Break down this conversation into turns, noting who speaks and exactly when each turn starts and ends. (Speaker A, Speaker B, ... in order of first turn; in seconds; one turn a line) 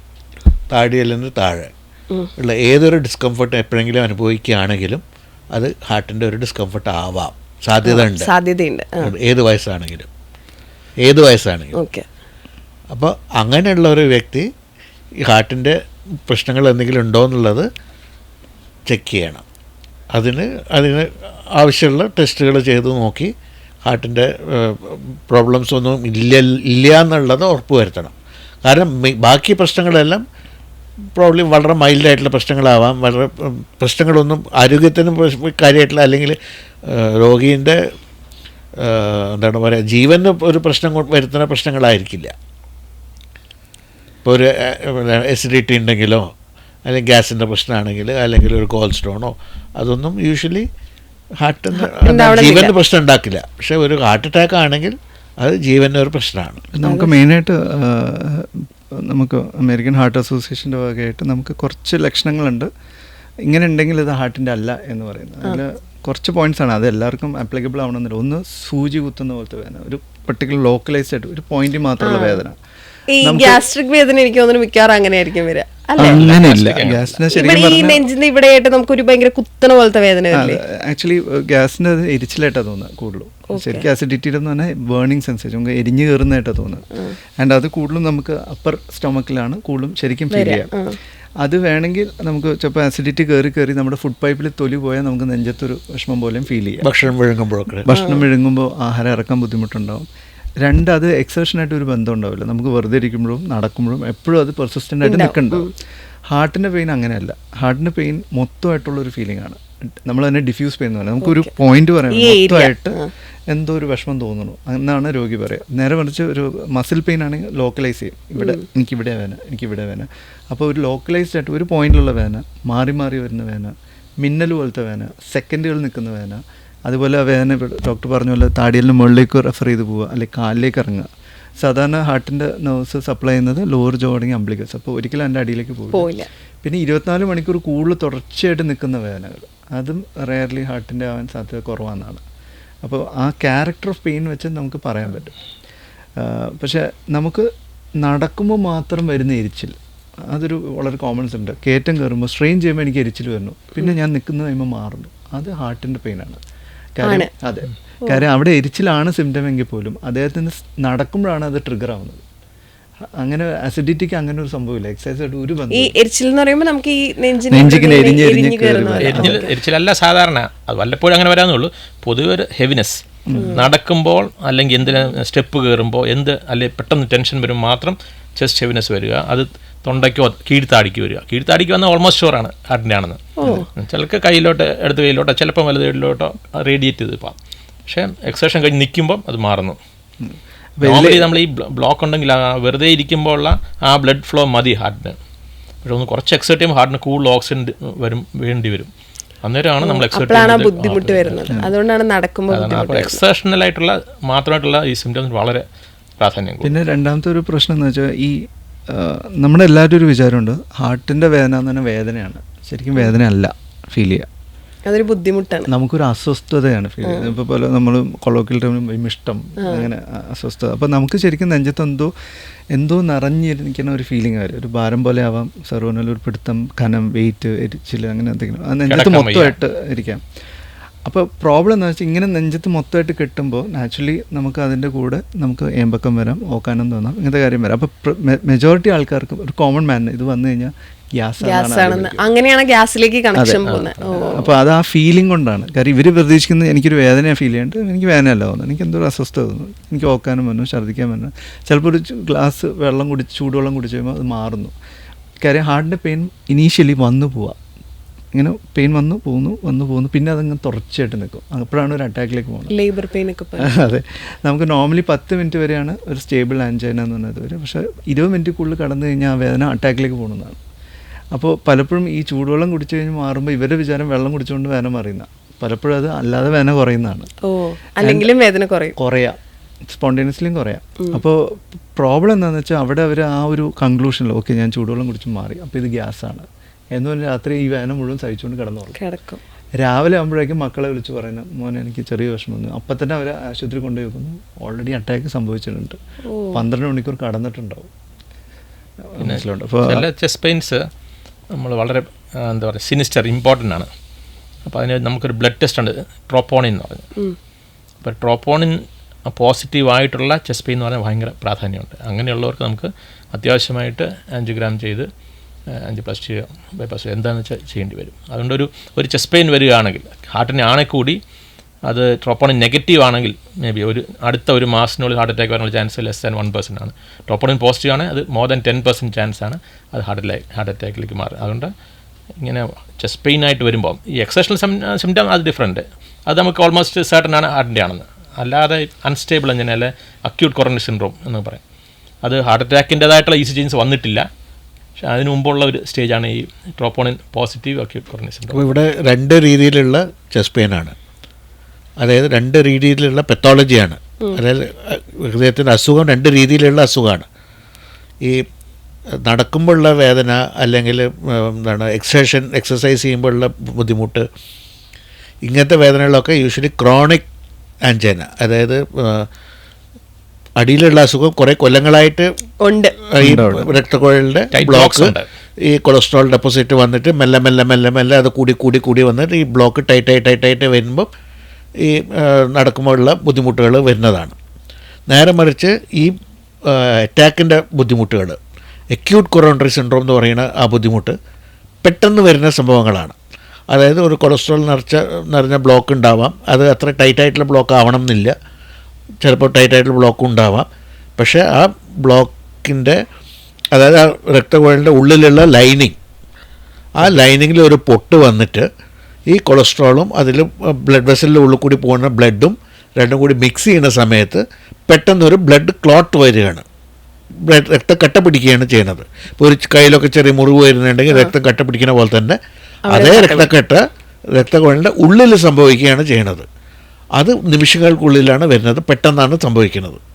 Speaker A: 0.7-1.7
Speaker A: 2.4-5.0
Speaker A: 5.5-8.3
Speaker B: 7.8-9.1
Speaker A: 9.0-10.1
Speaker A: 11.0-11.7
Speaker B: 11.7-12.1
Speaker A: 12.9-14.5
Speaker A: 15.2-17.7
Speaker A: 18.9-19.4
Speaker A: 20.1-23.3
Speaker A: 23.9-30.2
Speaker A: 31.1-36.4
Speaker A: 36.9-37.8
Speaker A: 38.8-42.3
Speaker A: 44.2-46.2
Speaker A: 46.9-50.7
Speaker A: 51.4-56.6
Speaker B: 51.8-52.7
Speaker C: 56.7-62.7
Speaker B: 56.8-57.2
Speaker C: 63.5-72.5
Speaker B: 72.0-72.4
Speaker B: 73.1-76.4
Speaker C: 73.2-73.6
Speaker C: 76.0-78.0
Speaker D: 76.0-77.2
Speaker B: 77.3-80.6
Speaker C: 80.3-86.8
Speaker B: 83.5-83.8
Speaker C: 87.4-90.7
Speaker B: 90.3-91.0
Speaker C: 91.4-96.8
Speaker A: 96.8-97.9
Speaker C: 97.8-100.0
Speaker B: 97.9-98.2
Speaker C: 100.6-105.7
Speaker B: 105.0-105.7
Speaker C: 106.3-136.1
Speaker B: 111.2-111.5
Speaker B: 112.1-113.1
Speaker B: 135.9-136.3
Speaker C: 136.6-142.2
Speaker C: 142.8-145.3
Speaker C: 146.2-147.5
Speaker C: 148.0-149.8
Speaker C: 150.3-156.4
Speaker C: 157.0-162.2
Speaker B: 157.0-157.3
Speaker C: 163.2-165.9
Speaker B: 165.7-169.5
Speaker C: 167.5-169.4
Speaker D: 169.0-187.3
Speaker C: 173.3-173.6
Speaker B: 173.3-173.6
Speaker B: 183.4-183.7
Speaker D: 187.9-189.8
Speaker C: 190.2-191.3
Speaker D: 190.8-195.2
Speaker D: 195.8-198.9
Speaker D: 199.4-201.5
Speaker B: 199.8-203.2
Speaker D: 202.5-205.6
Speaker D: 206.2-206.8
Speaker C: 206.6-214.3
Speaker B: 214.8-215.7
Speaker C: 215.7-222.1
Speaker B: 217.1-217.3
Speaker C: 222.7-230.2
Speaker D: 228.9-229.6
Speaker C: 231.0-242.3
Speaker B: 241.4-244.4
Speaker C: 243.3-254.7
Speaker C: 255.4-257.6
Speaker C: 258.3-262.7
Speaker B: 262.7-263.7
Speaker C: 263.6-270.6
Speaker C: 271.3-277.3
Speaker B: 277.5-278.9
Speaker C: 278.0-278.3
Speaker C: 278.9-289.0
Speaker B: 289.0-289.4
Speaker C: 289.8-296.0
Speaker B: 296.3-296.6
Speaker C: 296.5-297.9
Speaker C: 299.1-300.1
Speaker D: 299.2-300.8
Speaker D: 301.5-303.9
Speaker D: 304.6-307.1
Speaker D: 308.0-315.1
Speaker D: 315.8-321.2
Speaker D: 321.9-331.7
Speaker D: 332.4-341.6
Speaker D: 342.2-344.3
Speaker D: 345.0-348.7
Speaker A: 348.5-350.9
Speaker A: 352.0-357.3
Speaker A: 359.2-364.2
Speaker A: 365.4-367.2
Speaker A: 367.9-369.3
Speaker A: 370.6-372.3
Speaker B: 372.6-372.9
Speaker A: 373.1-375.1
Speaker C: 373.2-373.7
Speaker D: 374.5-375.2
Speaker A: 375.7-381.1
Speaker A: 381.8-384.3
Speaker A: 385.1-386.1
Speaker A: 386.7-388.4
Speaker A: 388.9-391.1
Speaker A: 391.8-393.1
Speaker A: 393.7-398.3
Speaker A: 399.2-403.0
Speaker A: 403.7-405.9
Speaker A: 407.0-408.7
Speaker A: 409.3-416.6
Speaker A: 417.5-422.4
Speaker B: 422.9-423.5
Speaker A: 422.9-423.8
Speaker A: 424.3-426.4
Speaker A: 427.2-430.0